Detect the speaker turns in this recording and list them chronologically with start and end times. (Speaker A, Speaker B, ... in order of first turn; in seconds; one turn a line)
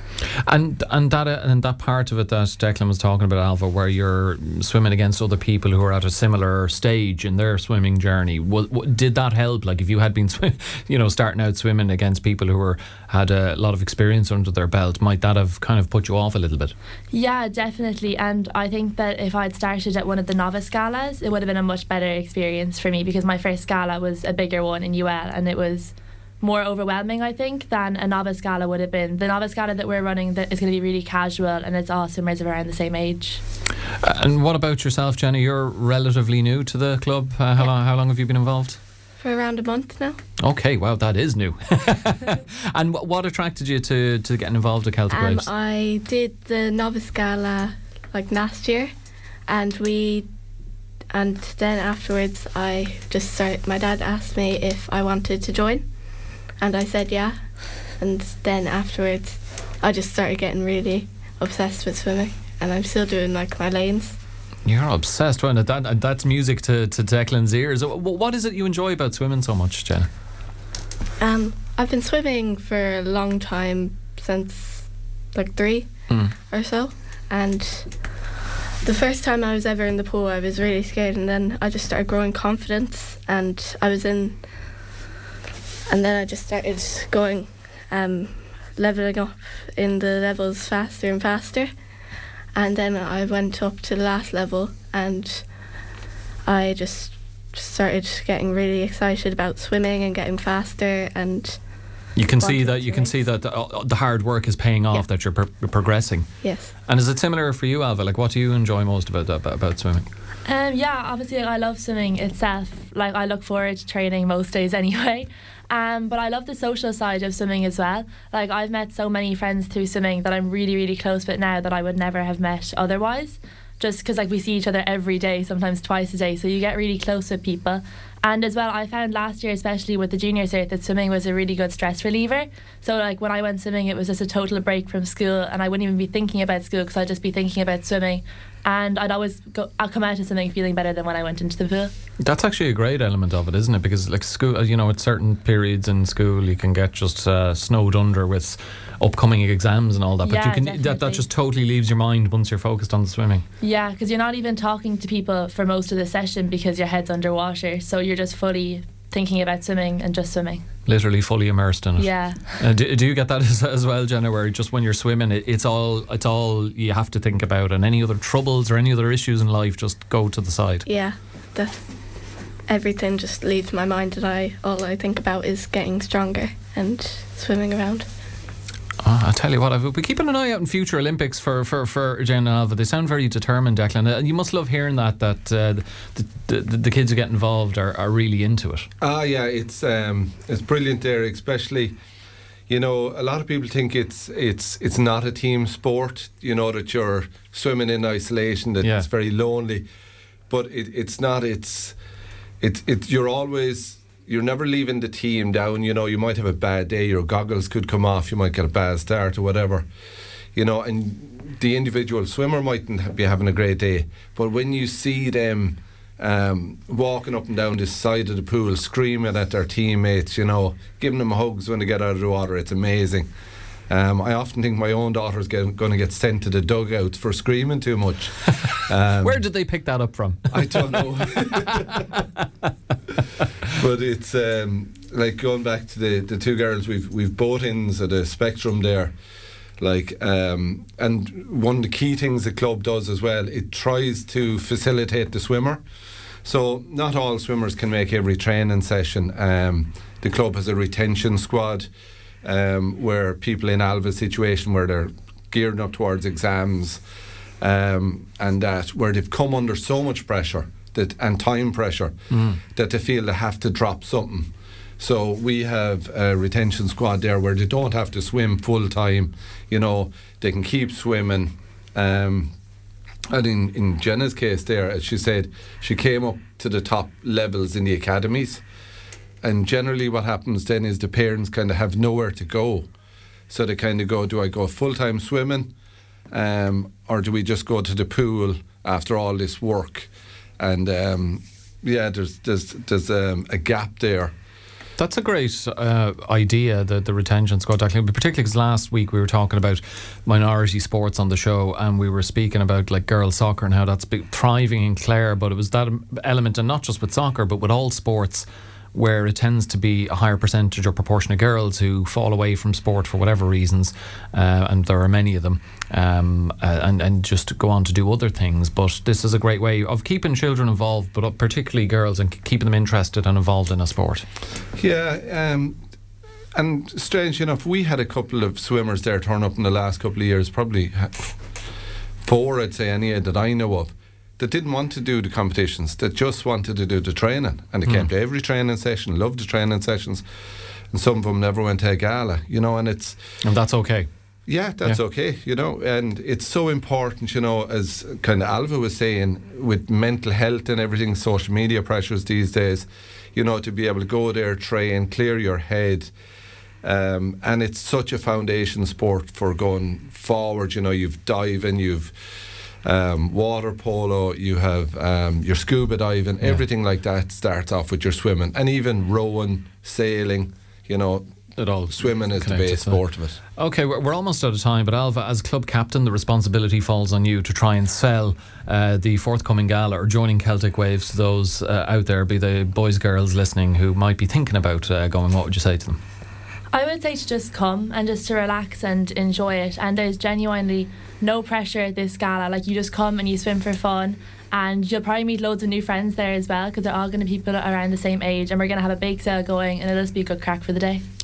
Speaker A: 0.4-16.7
Speaker B: 17.1-33.4
Speaker A: 34.0-38.8
Speaker C: 39.2-40.2
Speaker A: 40.4-45.5
Speaker C: 45.1-48.9
Speaker C: 49.4-50.3
Speaker C: 51.1-64.2
Speaker A: 64.6-70.1
Speaker C: 71.2-78.2
Speaker C: 78.8-84.5
Speaker C: 85.9-91.7
Speaker C: 92.5-95.9
Speaker C: 96.4-103.2
Speaker A: 102.1-110.0
Speaker C: 106.4-106.7
Speaker B: 110.4-141.9
Speaker A: 142.2-153.4
Speaker B: 150.2-151.2
Speaker B: 153.6-160.6
Speaker A: 160.8-170.8
Speaker B: 162.0-162.6
Speaker C: 170.8-178.1
Speaker A: 179.0-188.9
Speaker D: 189.0-191.9
Speaker D: 192.7-199.8
Speaker A: 198.8-199.1
Speaker D: 200.5-201.9
Speaker D: 202.6-209.8
Speaker D: 210.5-223.3
Speaker D: 223.9-229.4
Speaker A: 229.2-232.2
Speaker D: 230.5-232.0
Speaker D: 233.8-239.1
Speaker D: 239.8-245.8
Speaker D: 246.4-251.9
Speaker D: 252.4-257.0
Speaker D: 257.6-272.5
Speaker A: 262.3-262.6
Speaker D: 273.3-278.6
Speaker D: 279.4-282.9
Speaker D: 283.5-285.7
Speaker D: 286.3-294.3
Speaker A: 295.0-324.2
Speaker D: 324.8-325.8
Speaker D: 326.5-331.4
Speaker D: 332.2-340.2
Speaker D: 340.9-343.2
Speaker A: 343.4-344.1
Speaker D: 344.5-356.1
Speaker D: 356.8-362.1
Speaker D: 362.8-371.3
Speaker A: 371.6-373.0
Speaker D: 371.9-373.4
Speaker A: 373.6-386.0
Speaker B: 386.7-401.0